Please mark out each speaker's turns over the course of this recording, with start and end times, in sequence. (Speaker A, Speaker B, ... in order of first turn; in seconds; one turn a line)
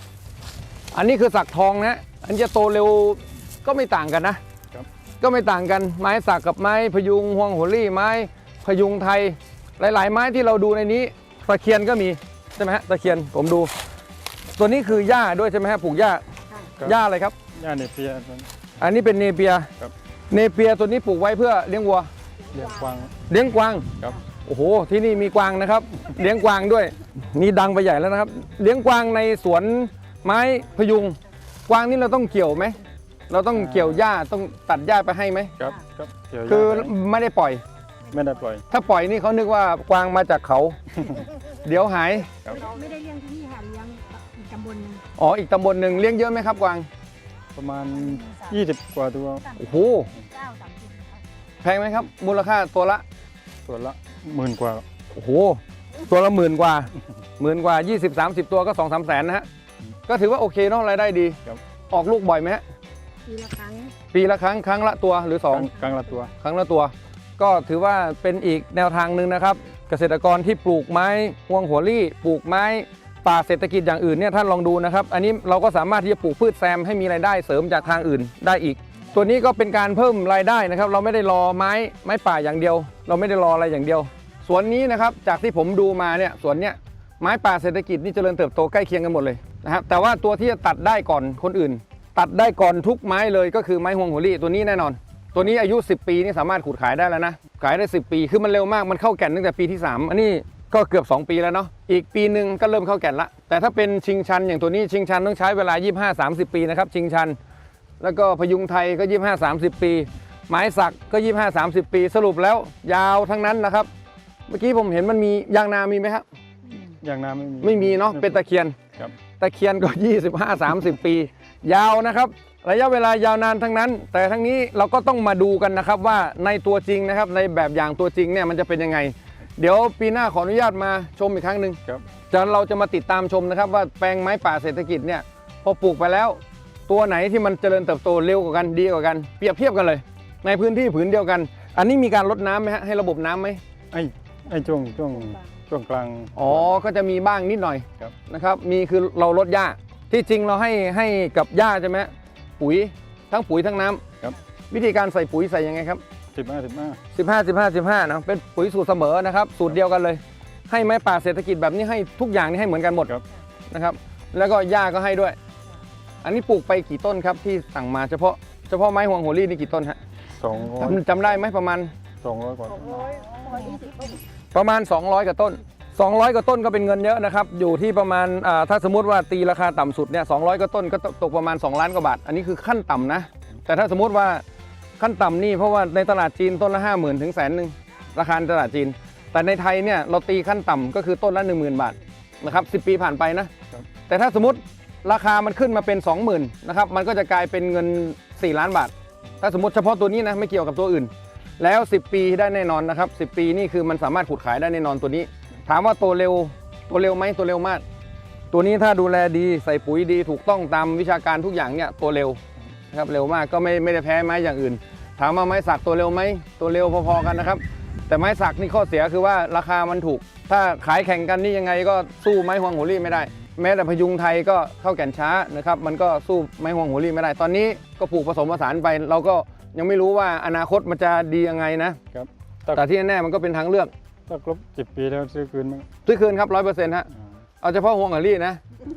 Speaker A: 0.9-4.4
Speaker A: 5.2-13.7
Speaker A: 14.5-16.2
Speaker B: 16.5-16.7
Speaker A: 16.8-17.3
Speaker C: 17.5-18.5
Speaker A: 18.8-19.7
Speaker A: 20.3-22.1
Speaker B: 22.5-23.0
Speaker C: 22.5-23.1
Speaker A: 23.3-35.5
Speaker C: 33.5-34.0
Speaker C: 35.6-36.9
Speaker A: 36.5-37.6
Speaker C: 38.1-38.6
Speaker A: 38.7-40.8
Speaker A: 41.6-42.4
Speaker B: 42.5-45.0
Speaker A: 45.2-46.9
Speaker C: 47.5-49.5
Speaker B: 47.9-48.6
Speaker B: 49.4-51.2
Speaker A: 49.5-50.1
Speaker A: 51.6-53.0
Speaker C: 53.7-54.8
Speaker A: 55.1-59.5
Speaker A: 60.1-61.4
Speaker A: 61.9-62.6
Speaker B: 63.2-63.9
Speaker A: 64.1-65.7
Speaker C: 65.5-66.3
Speaker B: 65.8-66.3
Speaker A: 66.4-107.4
Speaker A: 108.0-113.9
Speaker A: 114.5-116.2
Speaker C: 116.8-118.4
Speaker A: 117.6-118.8
Speaker A: 119.4-143.6
Speaker C: 143.9-146.6
Speaker B: 145.1-145.4
Speaker A: 146.3-154.0
Speaker A: 154.7-156.0
Speaker C: 156.3-157.0
Speaker A: 157.1-163.1
Speaker A: 163.7-165.4
Speaker A: 166.2-170.0
Speaker C: 170.4-171.0
Speaker A: 170.8-171.9
Speaker C: 172.2-173.1
Speaker B: 172.9-174.2
Speaker A: 174.5-184.4
Speaker A: 185.0-193.5
Speaker A: 194.1-207.8
Speaker A: 208.5-212.4
Speaker A: 212.9-232.0
Speaker C: 232.1-232.8
Speaker A: 232.7-233.9
Speaker C: 234.3-235.9
Speaker A: 236.0-237.1
Speaker A: 237.6-238.6